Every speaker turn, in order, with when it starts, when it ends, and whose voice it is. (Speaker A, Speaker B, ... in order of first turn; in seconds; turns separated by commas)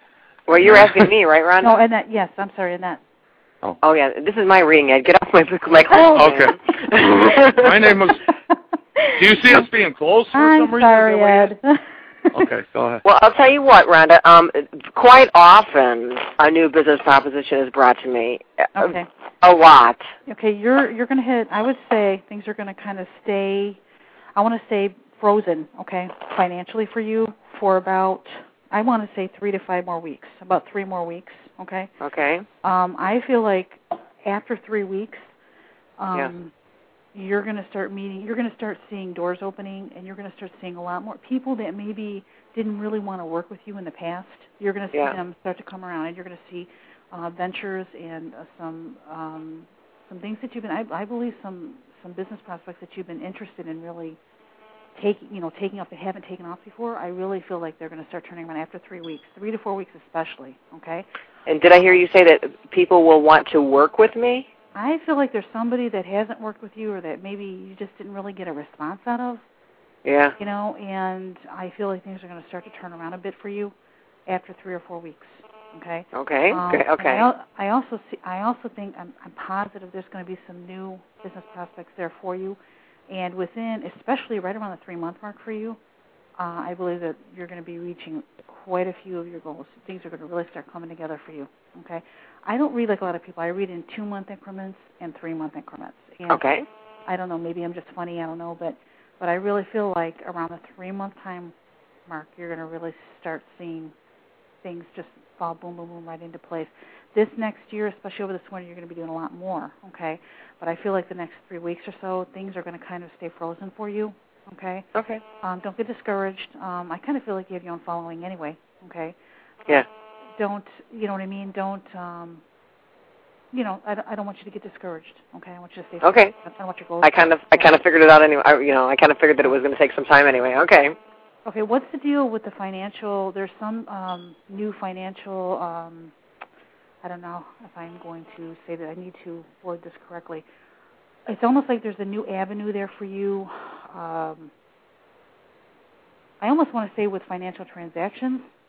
Speaker A: 0.5-1.8, Speaker B: 0.6-1.1, Speaker C: 1.6-3.0, Speaker A: 3.8-7.8, Speaker B: 6.1-8.2, Speaker B: 9.2-11.6, Speaker C: 10.3-12.4, Speaker B: 12.3-13.0, Speaker A: 13.1-20.1, Speaker C: 18.8-19.1, Speaker C: 20.3-23.8, Speaker C: 24.4-31.9, Speaker A: 32.0-32.5, Speaker C: 32.6-35.3, Speaker C: 36.0-36.5, Speaker C: 37.1-54.2, Speaker C: 55.0-61.1, Speaker A: 61.5-64.5, Speaker C: 64.8-69.4, Speaker A: 70.0-70.3, Speaker C: 70.4-73.7, Speaker C: 74.3-82.6, Speaker A: 76.1-77.3, Speaker C: 83.1-85.8, Speaker C: 86.4-96.4, Speaker A: 96.3-96.7, Speaker C: 97.1-101.5, Speaker C: 102.1-103.9, Speaker C: 104.6-114.9, Speaker A: 115.0-115.2, Speaker C: 115.4-119.2, Speaker C: 120.4-122.4, Speaker C: 123.5-127.8, Speaker A: 126.0-126.3, Speaker A: 127.0-130.9, Speaker C: 131.4-136.1, Speaker C: 137.0-140.4, Speaker C: 141.3-144.5, Speaker C: 146.4-148.5